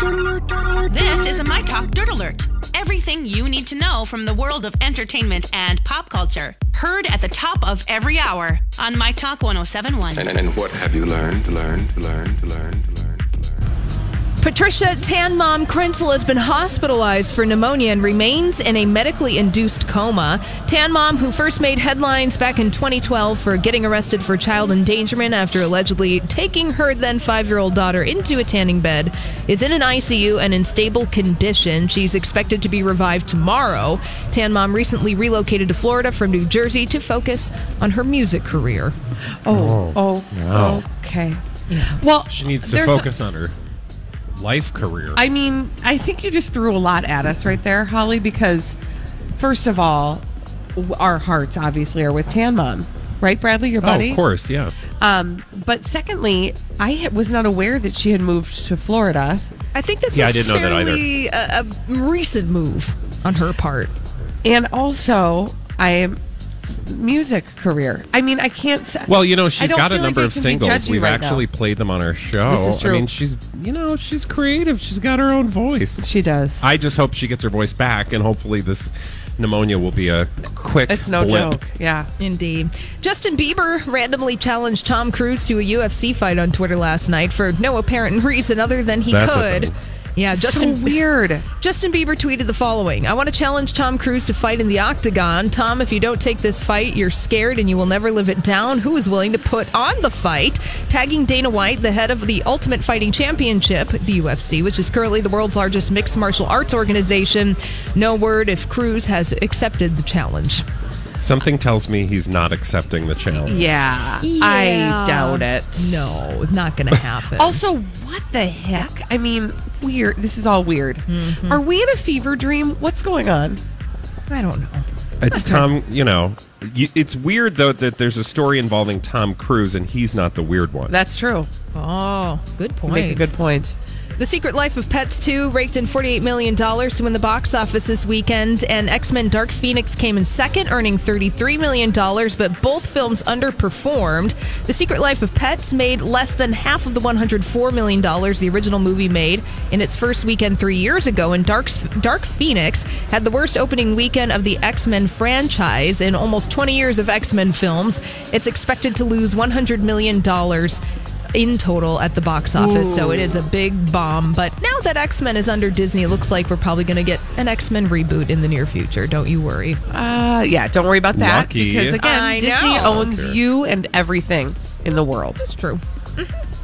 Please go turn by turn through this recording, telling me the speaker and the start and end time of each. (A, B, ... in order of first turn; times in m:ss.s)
0:00.9-0:10.3 A
0:10.2-0:13.5 B
0:14.4-0:39.0 C
0:39.4-0:41.4 D
0:39.5-0:40.8 E
0:41.7-0:42.0 C
0:42.0-0:43.1 D
0:42.3-0:43.6 E
0:44.4-0:45.2 E
0:45.2-0:48.8 D
0:49.4-0:50.2 D
0:50.8-0:54.2 D
0:53.8-0:54.8 E
0:55.0-0:59.4 D
0:59.7-1:03.9 C
1:00.1-1:01.1 E
1:04.4-1:06.2 D
1:06.9-1:11.5 D
1:09.1-1:16.1 E
1:12.5-1:13.1 D
1:16.0-1:16.6 D
1:16.6-1:21.6 E
1:20.9-1:22.1 D
1:22.2-1:31.0 C
1:29.1-1:29.7 E
1:30.4-1:31.5 D
1:31.6-1:50.6 C
1:51.2-1:53.7 E
1:53.4-1:56.2 D
1:54.2-1:57.6 C
1:57.3-2:03.6 D
2:01.1-2:01.6 C
2:04.3-2:05.6 C
2:05.2-2:11.0 E
2:10.9-2:11.5 D
2:11.7-2:13.3 C
2:12.9-2:13.8 D
2:14.2-2:40.8 C
2:41.3-2:49.8 C
2:42.6-2:43.4 D
2:49.9-2:55.4 D
2:51.1-2:52.0 E
2:51.9-2:53.1 C
2:52.9-2:53.4 E
2:55.4-2:56.3 C